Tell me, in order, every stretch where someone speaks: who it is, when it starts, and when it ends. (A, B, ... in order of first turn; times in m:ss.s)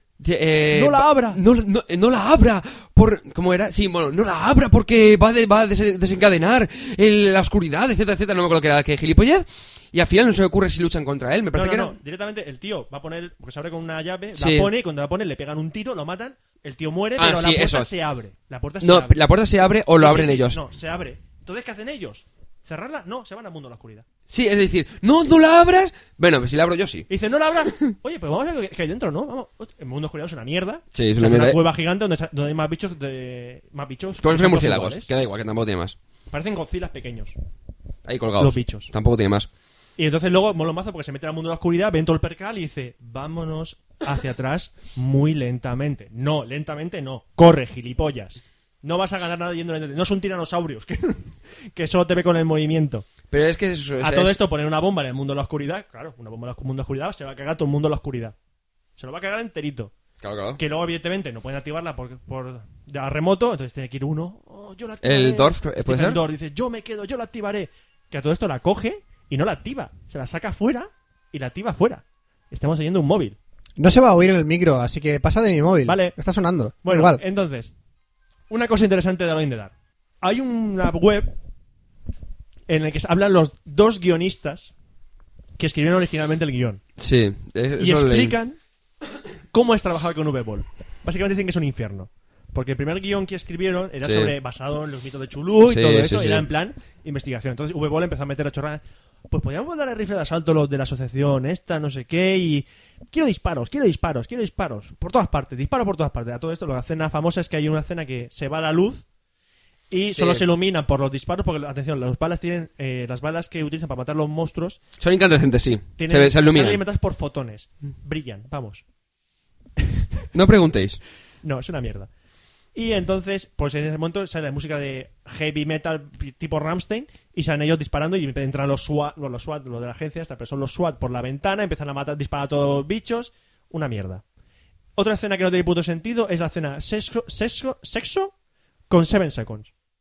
0:00.2-0:12.0 A
0:00.7-0:01.4 B
0:11.5-0:19.2 B
0:14.4-0:14.7 A
0:17.2-0:17.9 A
0:18.8-0:20.6 A
0:19.9-0:24.1 B
0:24.3-0:27.1 A
0:27.1-0:35.1 B
0:30.9-0:31.6 A
0:34.2-0:36.0 A
0:36.3-0:37.4 B
0:38.0-0:39.5 A
0:38.4-0:38.9 B
0:40.0-0:53.1 B
0:53.3-0:54.4 A
0:54.0-0:58.4 B
0:59.0-0:59.9 B
1:00.2-1:00.6 A
1:00.6-1:13.4 B
1:05.0-1:06.2 A
1:13.8-1:17.2 C
1:15.8-1:16.2 B
1:16.8-1:17.7 B
1:18.5-1:21.3 B
1:22.7-1:24.7 B
1:25.6-1:26.8 B
1:27.0-1:28.4 A
1:27.8-1:28.6 B
1:29.5-1:49.0 B
1:34.0-1:34.3 A
1:35.7-1:36.5 A
1:49.9-1:54.8 B
1:50.1-1:50.4 A
1:55.0-1:56.8 A
1:56.0-1:58.8 B
2:00.3-2:01.0 A
2:01.4-2:02.1 B
2:02.8-2:14.2 B
2:15.0-2:18.3 B
2:18.9-2:19.7 B